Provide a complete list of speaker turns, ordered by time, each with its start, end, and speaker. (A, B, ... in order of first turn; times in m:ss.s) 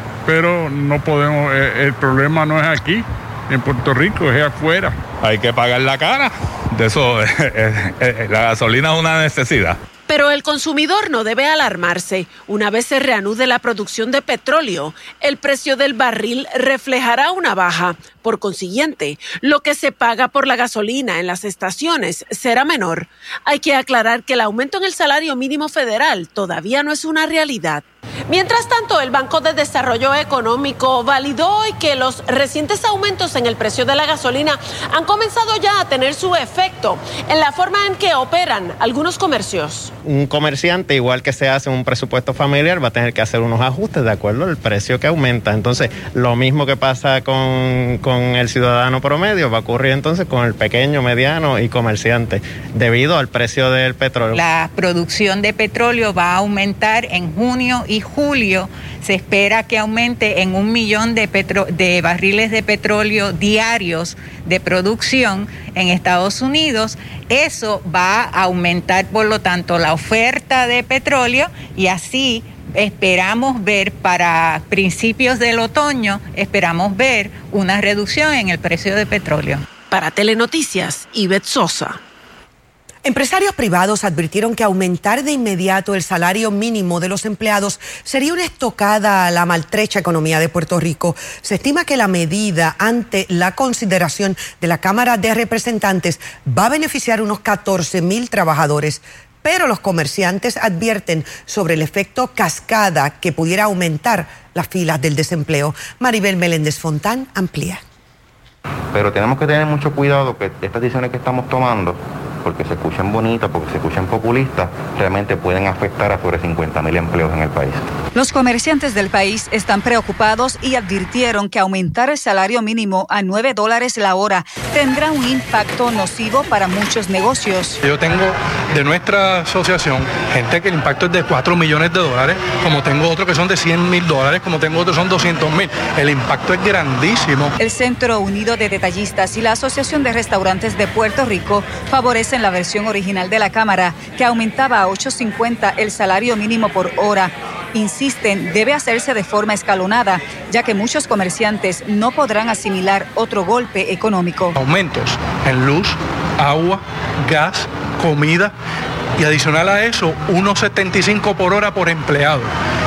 0:00.2-0:05.0 A
0:05.2-0:09.8 B
0:10.1-0:40.0 C
0:40.0-0:54.4 D
0:54.3-1:19.6 E
1:19.9-1:22.0 C
1:23.0-1:47.8 F
1:48.9-1:57.9 G
1:58.1-2:07.8 H
2:07.8-2:17.5 I
2:17.6-2:34.6 H
2:34.6-2:38.5 I
2:39.2-2:42.5 I